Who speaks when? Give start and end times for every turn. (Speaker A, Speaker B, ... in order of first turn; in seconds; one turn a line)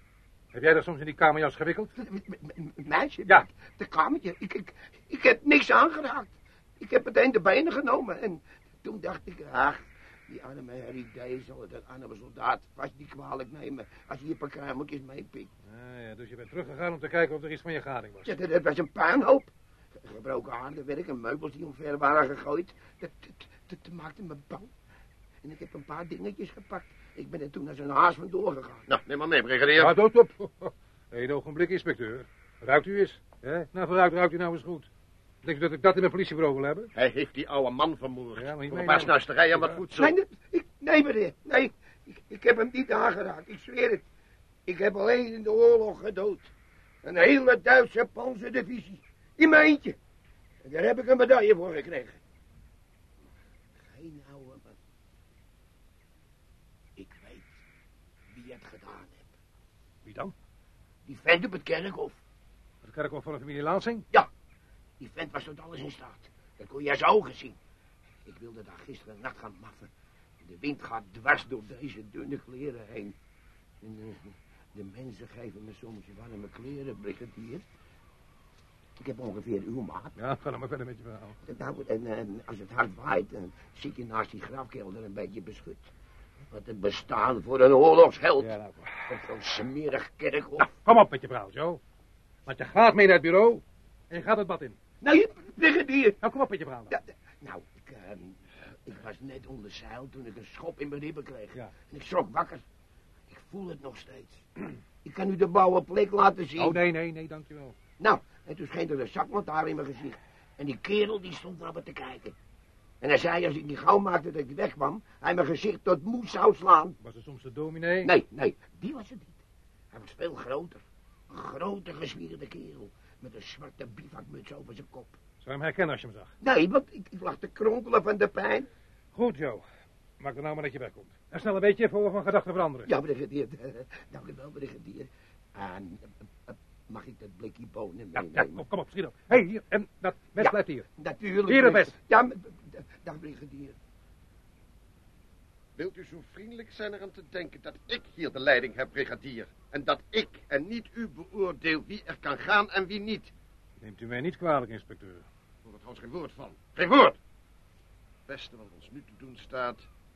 Speaker A: 0.5-1.9
Speaker B: 2.0-15.5
Speaker A: 15.7-18.3
Speaker B: 18.3-19.5
Speaker B: 20.0-24.7
Speaker B: 25.4-28.9
Speaker C: 28.9-30.0
Speaker A: 29.8-34.9
Speaker A: 35.4-36.9
Speaker C: 37.0-40.1
Speaker A: 38.4-39.8
Speaker B: 40.0-44.0
Speaker B: 44.7-46.5
Speaker B: 47.0-50.0
Speaker B: 50.6-52.2
Speaker B: 53.8-54.8
Speaker B: 57.0-57.6
Speaker B: 58.3-59.3
Speaker A: 60.0-60.3
Speaker B: 61.1-62.2
Speaker A: 62.8-64.1
Speaker B: 65.0-67.6
Speaker B: 68.2-69.9
Speaker B: 70.4-73.2
Speaker B: 73.8-77.6
Speaker B: 79.0-80.2
Speaker A: 80.2-81.4
Speaker B: 81.5-85.9
Speaker B: 86.5-88.5
Speaker A: 88.4-89.0
Speaker B: 89.1-90.7
Speaker A: 90.6-91.8
Speaker A: 92.5-94.8
Speaker B: 95.0-96.2
Speaker A: 96.2-96.9
Speaker B: 96.9-102.6
Speaker B: 103.3-104.5
Speaker B: 105.0-106.8
Speaker A: 106.6-107.8
Speaker B: 108.0-112.3
Speaker B: 113.0-117.0
Speaker A: 117.0-118.1
Speaker B: 118.0-125.2
Speaker A: 125.4-126.3
Speaker B: 126.4-128.7
Speaker A: 129.1-129.6
Speaker A: 130.2-132.9
Speaker B: 132.9-138.6
Speaker A: 138.2-140.9
Speaker B: 140.4-143.8
Speaker A: 141.5-142.0
Speaker C: 145.8-153.3
Speaker A: 153.8-155.2
Speaker C: 155.7-157.2
Speaker C: 158.3-159.9